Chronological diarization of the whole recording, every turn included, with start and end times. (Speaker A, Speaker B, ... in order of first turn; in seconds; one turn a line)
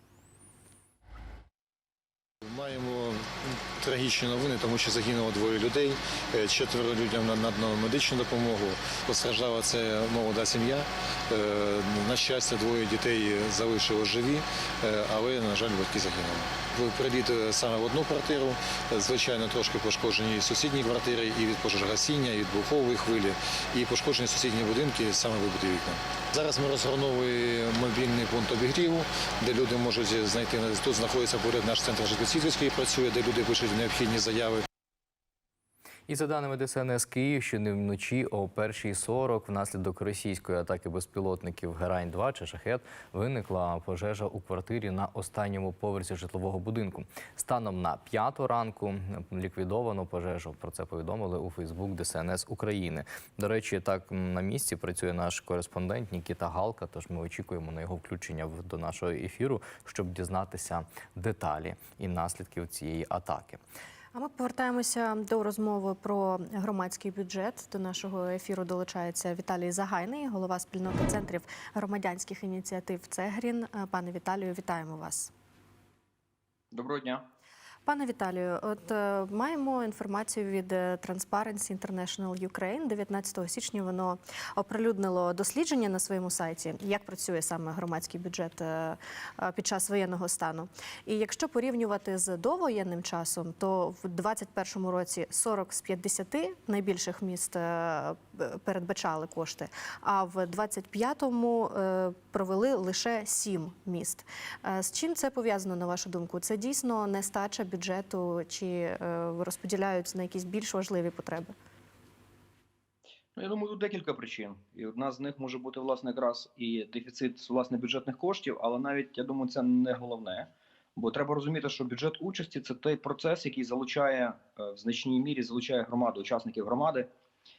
Speaker A: 2.4-34.6
Speaker B: 36.1-63.6
Speaker C: 64.1-75.3
Speaker D: 76.7-77.2
Speaker C: 77.9-111.5
Speaker D: 113.4-127.1